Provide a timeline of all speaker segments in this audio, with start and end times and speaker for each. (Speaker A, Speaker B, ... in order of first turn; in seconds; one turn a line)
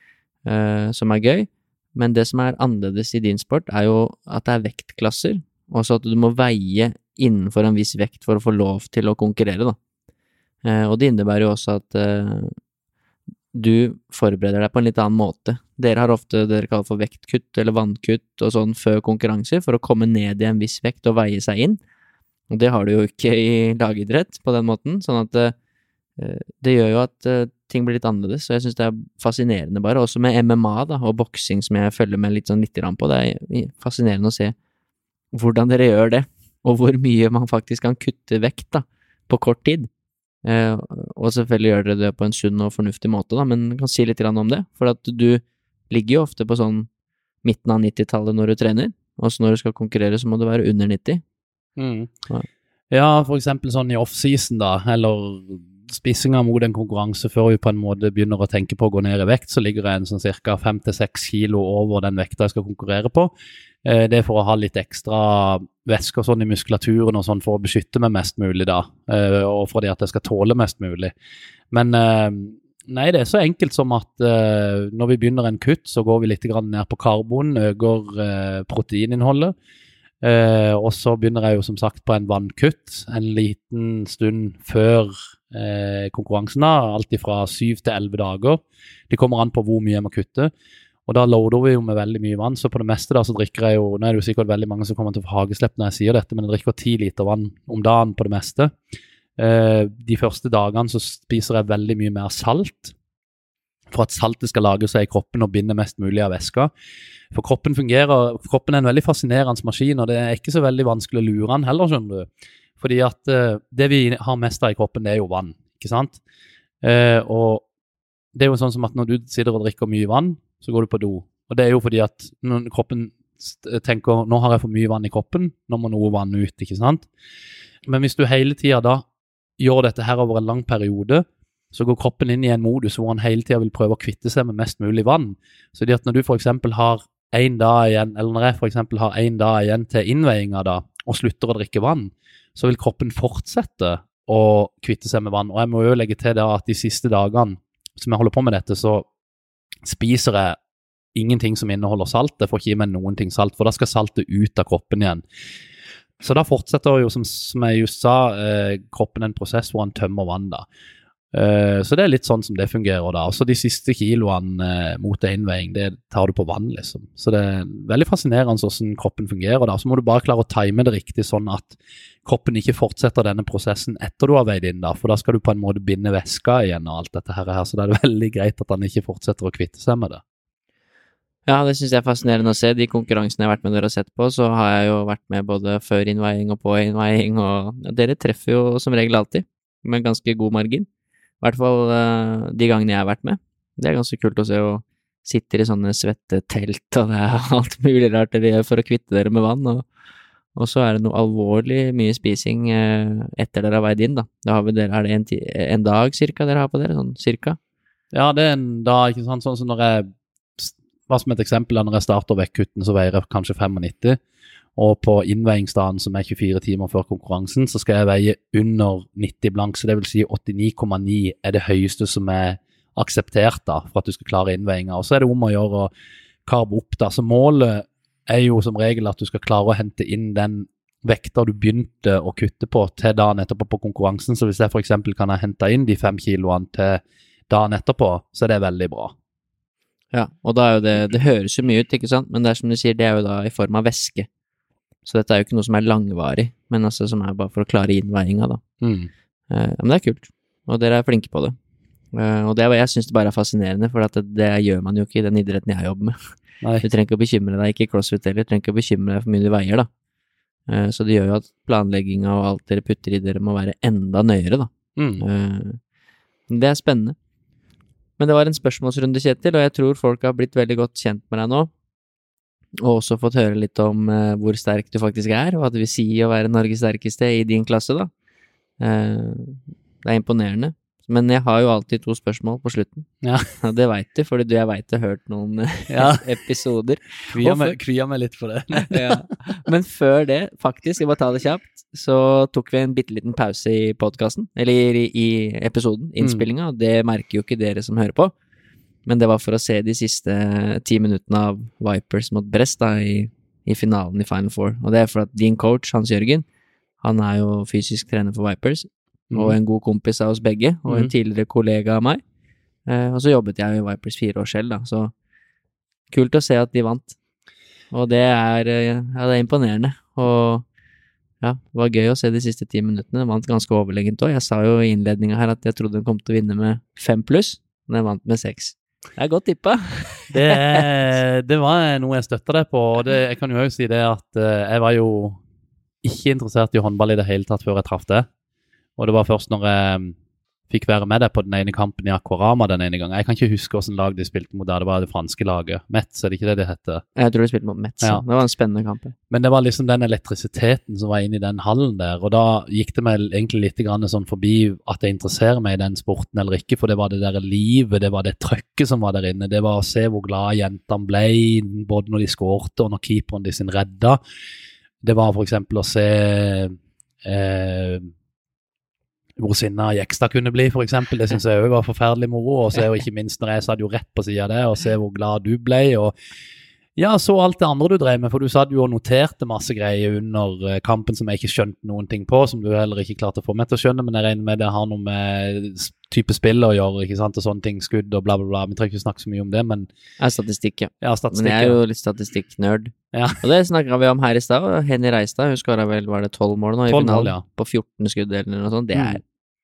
Speaker A: 0.5-9.8
Speaker A: 10.7-12.6
Speaker A: 13.5-21.8
Speaker A: 22.5-25.6
Speaker A: 26.2-34.5
Speaker A: 35.3-39.9
Speaker A: 40.4-46.9
Speaker A: 47.4-51.2
Speaker B: 51.8-52.1
Speaker B: 52.9-71.1
Speaker B: 71.7-79.5
Speaker B: 80.2-90.5
Speaker B: 91.1-98.7
Speaker B: 99.4-102.9
Speaker B: 103.9-106.7
Speaker B: 107.3-116.2
Speaker B: 116.8-117.7
Speaker B: 118.3-127.1
Speaker B: 127.9-129.1
Speaker B: 129.6-149.1
Speaker B: 149.8-150.6
Speaker B: 151.2-155.2
Speaker B: 156.2-160.7
Speaker B: 161.3-180.2
Speaker A: 181.4-190.9
Speaker A: 191.4-199.9
Speaker A: 200.6-207.6
Speaker B: 208.1-214.2
Speaker B: 214.8-225.9
Speaker B: 226.4-239.1
Speaker A: 240.1-244.3
Speaker A: 245.1-248.6
Speaker B: 248.8-249.1
Speaker A: 249.5-251.6
Speaker A: 252.1-259.9
Speaker A: 260.7-265.8
Speaker B: 265.0-265.2
Speaker A: 266.5-267.1
Speaker A: 268.2-271.7
Speaker A: 272.8-278.1
Speaker A: 278.8-283.1
Speaker B: 283.2-283.5
Speaker A: 283.6-287.8
Speaker B: 285.9-286.2
Speaker B: 287.3-289.2
Speaker A: 288.7-298.3
Speaker B: 296.2-296.5
Speaker A: 299.1-306.4
Speaker A: 307.0-312.2
Speaker B: 309.3-309.6
Speaker A: 312.9-315.1
Speaker A: 316.1-317.2
Speaker A: 317.9-320.6
Speaker A: 321.4-330.9
Speaker B: 330.3-335.4
Speaker B: 336.0-338.3
Speaker B: 339.0-340.1
Speaker B: 340.7-347.0
Speaker A: 347.1-349.1
Speaker B: 349.3-364.2
Speaker B: 365.0-368.1
Speaker B: 369.4-376.1
Speaker B: 377.0-389.9
Speaker A: 390.2-399.2
Speaker B: 391.0-391.8
Speaker B: 393.1-393.4
Speaker B: 396.9-397.4
Speaker B: 398.9-399.2